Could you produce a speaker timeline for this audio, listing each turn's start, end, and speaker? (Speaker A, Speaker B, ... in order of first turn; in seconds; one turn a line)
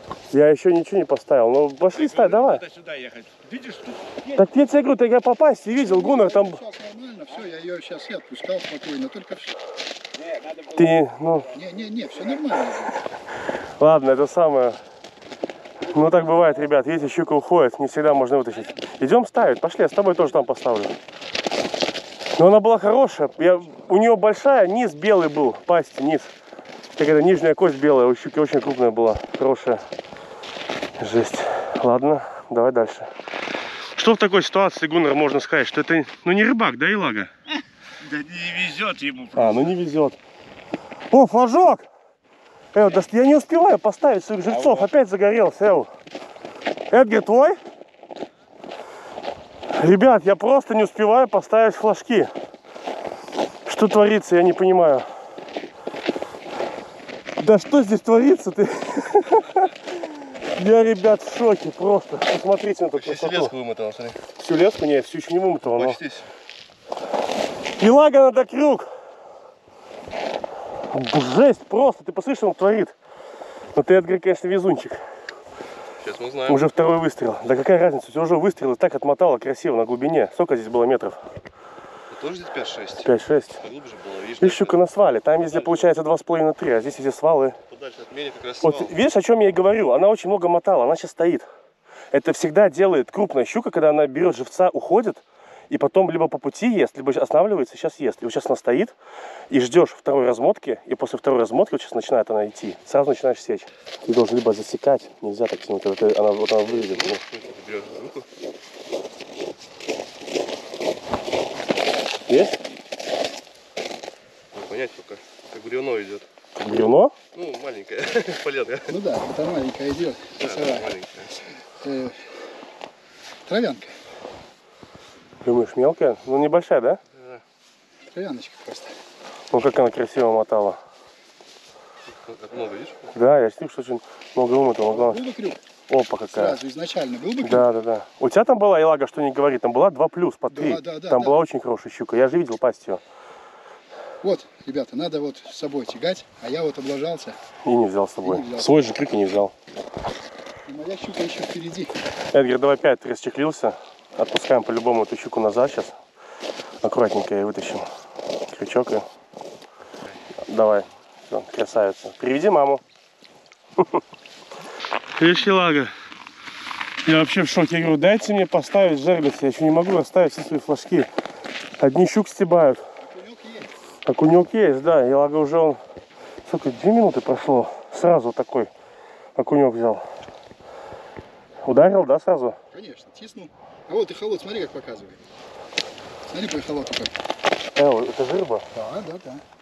Speaker A: 0.3-2.6
Speaker B: 1.9-4.4
Speaker A: 4.3-6.6
Speaker C: 5.7-9.6
Speaker B: 10.2-10.8
Speaker A: 10.7-11.5
Speaker C: 11.5-13.0
Speaker A: 13.8-14.8
Speaker A: 15.9-20.9
Speaker A: 22.4-26.3
Speaker A: 27.0-29.9
Speaker A: 31.0-33.1
Speaker A: 34.0-37.3
Speaker B: 38.0-39.7
Speaker A: 39.3-40.2
Speaker A: 41.1-41.9
Speaker A: 42.7-45.9
Speaker B: 44.5-44.9
Speaker A: 46.9-47.6
Speaker A: 49.7-52.3
Speaker A: 53.6-55.1
Speaker A: 57.4-63.5
Speaker D: 63.0-64.2
Speaker A: 64.4-66.0
Speaker D: 65.6-66.3
Speaker A: 67.8-68.9
Speaker A: 70.9-72.9
Speaker A: 73.7-75.0
Speaker D: 76.0-76.6
Speaker A: 76.5-81.2
Speaker D: 82.1-84.8
Speaker A: 83.0-83.6
Speaker A: 84.4-87.5
Speaker D: 87.7-88.9
Speaker A: 88.6-91.5
Speaker A: 92.1-98.9
Speaker A: 99.5-107.2
Speaker D: 106.6-108.2
Speaker A: 112.3-112.6
Speaker D: 114.5-116.3
Speaker A: 116.5-117.1
Speaker D: 117.3-118.9
Speaker C: 118.9-120.9
Speaker D: 120.4-121.3
Speaker C: 121.8-122.3
Speaker C: 123.5-123.9
Speaker A: 125.4-127.0
Speaker C: 128.1-128.9
Speaker A: 129.5-130.8
Speaker D: 132.1-133.0
Speaker A: 133.1-135.2
Speaker C: 134.9-135.6
Speaker A: 135.9-136.6
Speaker C: 136.3-137.7
Speaker A: 137.4-143.0
Speaker C: 140.5-141.4
Speaker C: 144.2-147.4
Speaker A: 147.6-149.5
Speaker C: 148.2-148.8
Speaker C: 150.7-151.9
Speaker A: 152.3-156.0
Speaker A: 156.8-157.9
Speaker A: 158.5-159.0
Speaker A: 160.4-162.8
Speaker A: 165.2-165.9
Speaker A: 167.0-171.1
Speaker A: 171.8-172.8
Speaker C: 173.0-173.7
Speaker A: 174.1-175.8
Speaker A: 176.4-178.7
Speaker A: 179.3-180.0
Speaker A: 181.6-182.6
Speaker C: 182.7-185.2
Speaker C: 186.3-187.2
Speaker A: 187.7-188.6
Speaker C: 188.7-189.4